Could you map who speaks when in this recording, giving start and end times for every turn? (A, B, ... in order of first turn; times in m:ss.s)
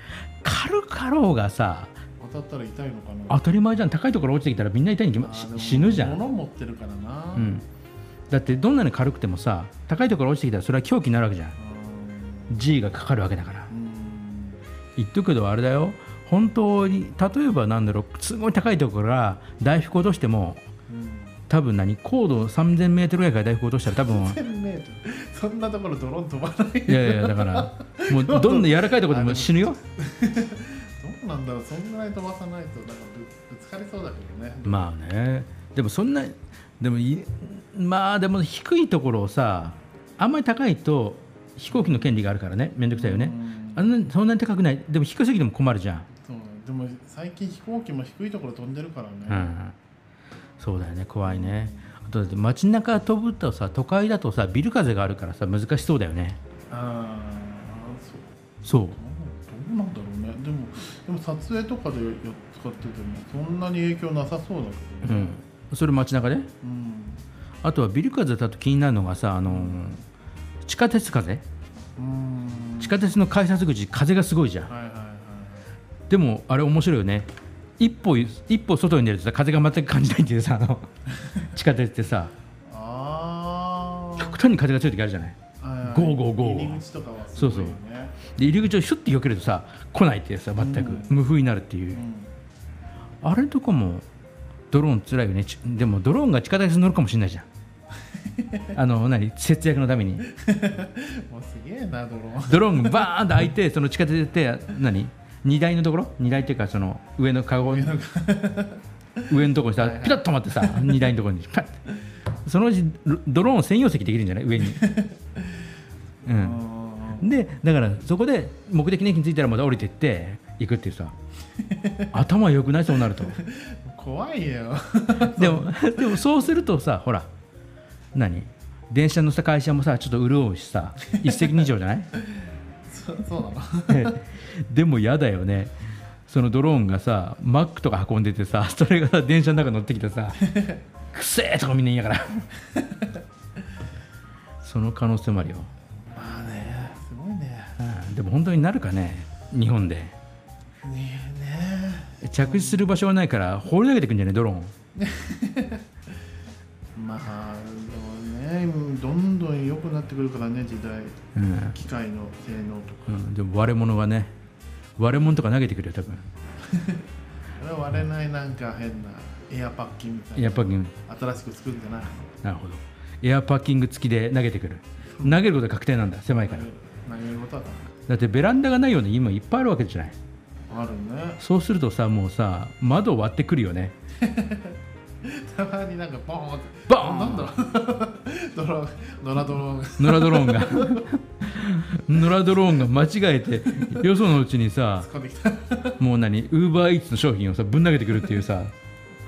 0:00.4-0:02.0 A
0:02.2-0:03.4 B
0:03.3-0:06.2 A
0:05.2-0:07.5 B
0:07.4-0:07.6 A
0:08.3-0:11.5 A
0:11.6-0:12.6 B
0:12.5-0:13.7 A
0:13.7-0:14.6 B
0:15.0-0:20.6 A
0:20.9-0:21.4 B
0:21.5-0:24.4 A
0:23.9-0:34.9 B
0:26.9-0:29.8 A
0:34.6-0:46.1 A
0:41.7-0:42.1 B
0:42.9-0:43.9 B
0:46.2-0:49.5 B
0:49.3-0:49.7 A
0:50.6-0:56.4 A
0:51.2-0:51.9 B
0:56.7-1:05.4 B
0:58.6-0:59.0 A
1:05.0-1:06.5 A
1:06.6-1:07.2 B
1:07.6-1:10.0 A
1:09.5-1:09.8 B
1:10.6-1:11.4 A
1:12.0-1:13.0 B
1:12.8-1:14.7 A
1:14.7-1:15.7 B
1:16.1-1:20.9 A
1:21.4-1:22.3 A
1:22.7-1:24.4 B
1:24.2-1:26.8 A
1:25.6-1:28.2 B
1:27.4-1:32.0 A
1:30.6-1:31.2 B
1:31.9-1:32.3 B
1:33.2-1:34.0 A
1:34.7-1:37.5 A
1:38.3-1:38.8 B
1:38.7-1:40.3 A
1:40.2-1:43.1 B
1:42.5-1:47.9 A
1:47.7-1:51.1 B
1:49.3-1:51.8 A
1:52.4-1:54.8 A
1:54.6-1:55.6 B
1:56.2-1:56.6 A
1:56.3-1:57.3 B
1:57.2-2:01.1 A
2:01.7-2:02.1 B
2:02.1-2:03.4 A
2:03.1-2:06.2 B
2:05.2-2:07.3 A
2:08.1-2:12.1 A
2:11.2-2:11.7 B
2:12.9-2:14.2 B
2:13.9-2:15.7 A
2:16.3-2:20.4 A
2:20.4-2:20.8 B
2:21.1-2:22.5 A
2:22.7-2:23.1 B
2:24.6-2:25.7 A
2:26.1-2:27.8 B
2:27.8-2:30.1 A
2:30.8-2:32.9 B
2:32.2-2:34.7 A
2:35.0-2:35.8 B
2:37.0-2:43.1 B
2:41.3-2:41.7 A
2:43.1-2:44.3 A
2:45.0-2:46.2 A
2:46.6-2:47.0 B
2:47.6-2:52.3 B
2:50.4-2:50.9 A
2:52.4-2:56.7 A
2:55.2-2:55.4 B
2:56.3-2:57.9 B
2:58.1-3:00.2 A
3:00.7-3:01.4 B
3:01.4-3:03.9 A
3:04.2-3:11.1 B
3:06.9-3:07.5 A
3:10.0-3:15.1 A
3:13.8-3:14.1 B
3:15.0-3:16.0 B
3:16.0-3:18.7 A